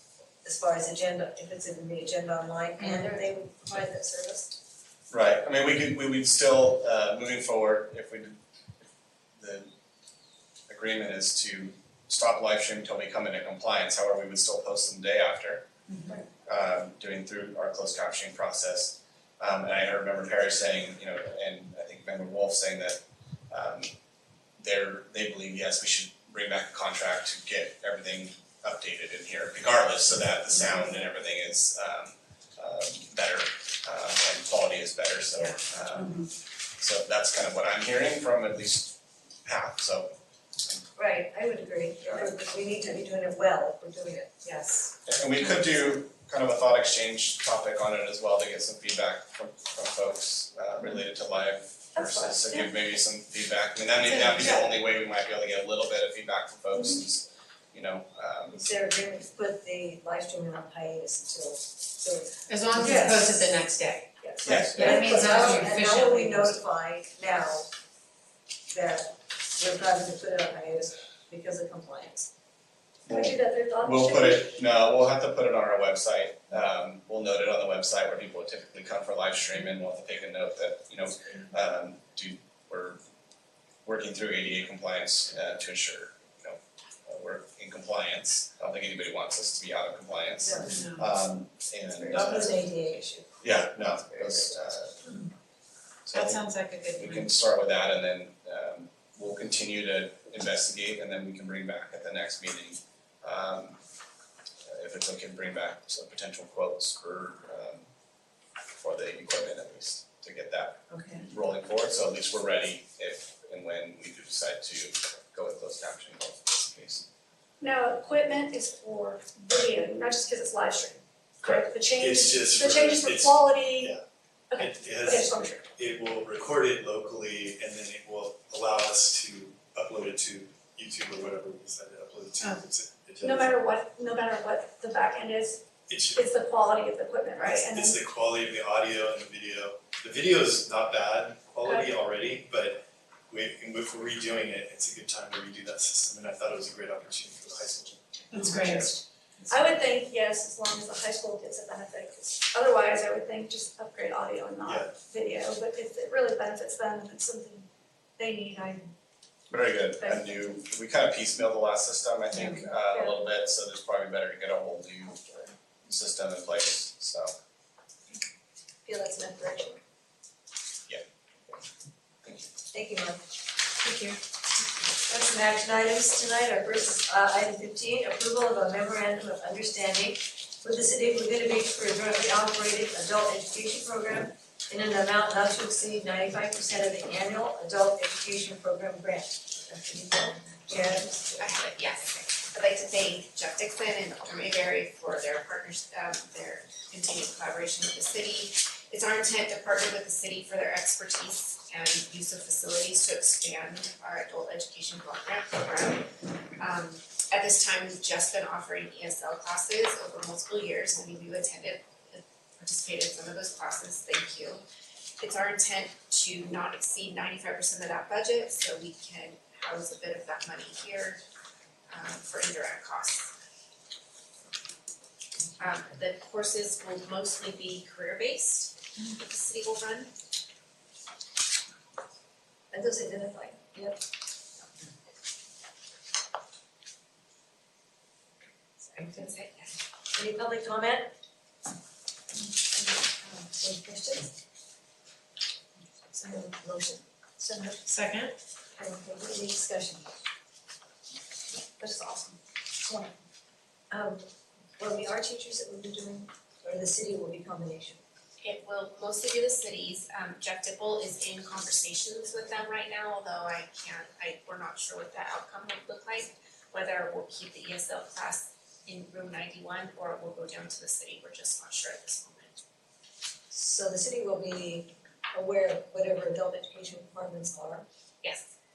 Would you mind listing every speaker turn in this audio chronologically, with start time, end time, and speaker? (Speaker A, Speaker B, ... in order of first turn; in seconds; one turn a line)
Speaker A: 0.4-4.6
Speaker B: 2.8-3.3
Speaker C: 5.1-8.4
Speaker C: 9.4-9.7
Speaker C: 10.7-15.7
Speaker B: 15.9-16.2
Speaker C: 16.4-23.0
Speaker C: 23.5-23.9
Speaker C: 24.6-36.2
Speaker B: 35.4-36.3
Speaker C: 36.8-40.1
Speaker A: 41.0-44.3
Speaker B: 44.4-44.9
Speaker C: 45.1-58.6
Speaker B: 54.1-54.7
Speaker A: 58.5-63.5
Speaker B: 62.5-64.1
Speaker A: 64.2-67.7
Speaker C: 64.4-65.6
Speaker B: 64.7-66.6
Speaker A: 68.7-72.3
Speaker C: 73.1-83.0
Speaker D: 73.1-74.6
Speaker C: 83.8-92.6
Speaker A: 90.4-90.8
Speaker B: 90.6-91.1
Speaker A: 91.8-94.5
Speaker C: 93.4-95.0
Speaker C: 96.1-96.4
Speaker B: 96.1-97.3
Speaker C: 97.0-103.8
Speaker C: 104.7-107.8
Speaker C: 108.8-117.0
Speaker A: 110.9-111.2
Speaker D: 117.6-123.9
Speaker E: 121.5-124.0
Speaker D: 124.5-125.7
Speaker E: 124.6-133.6
Speaker D: 133.2-135.6
Speaker E: 135.9-136.4
Speaker D: 136.1-138.0
Speaker E: 137.3-149.0
Speaker D: 141.6-141.9
Speaker B: 148.3-148.8
Speaker D: 149.5-158.9
Speaker E: 154.6-154.9
Speaker C: 159.5-165.2
Speaker B: 162.4-162.6
Speaker D: 162.9-163.2
Speaker D: 165.1-165.4
Speaker C: 165.9-167.3
Speaker A: 168.8-169.8
Speaker A: 172.7-173.2
Speaker B: 173.8-174.2
Speaker A: 175.1-191.4
Speaker F: 190.7-206.1
Speaker F: 206.6-214.6
Speaker F: 215.2-221.2
Speaker F: 221.9-223.3
Speaker F: 225.6-230.1
Speaker A: 232.7-234.0
Speaker F: 238.8-239.8
Speaker A: 240.1-241.1
Speaker A: 242.7-244.3
Speaker A: 246.1-247.8
Speaker B: 247.9-248.4
Speaker A: 248.8-250.1
Speaker A: 251.8-252.3
Speaker F: 251.9-252.3
Speaker A: 253.9-254.2
Speaker A: 254.8-258.0
Speaker F: 258.4-272.6
Speaker A: 273.5-277.9
Speaker F: 278.2-278.6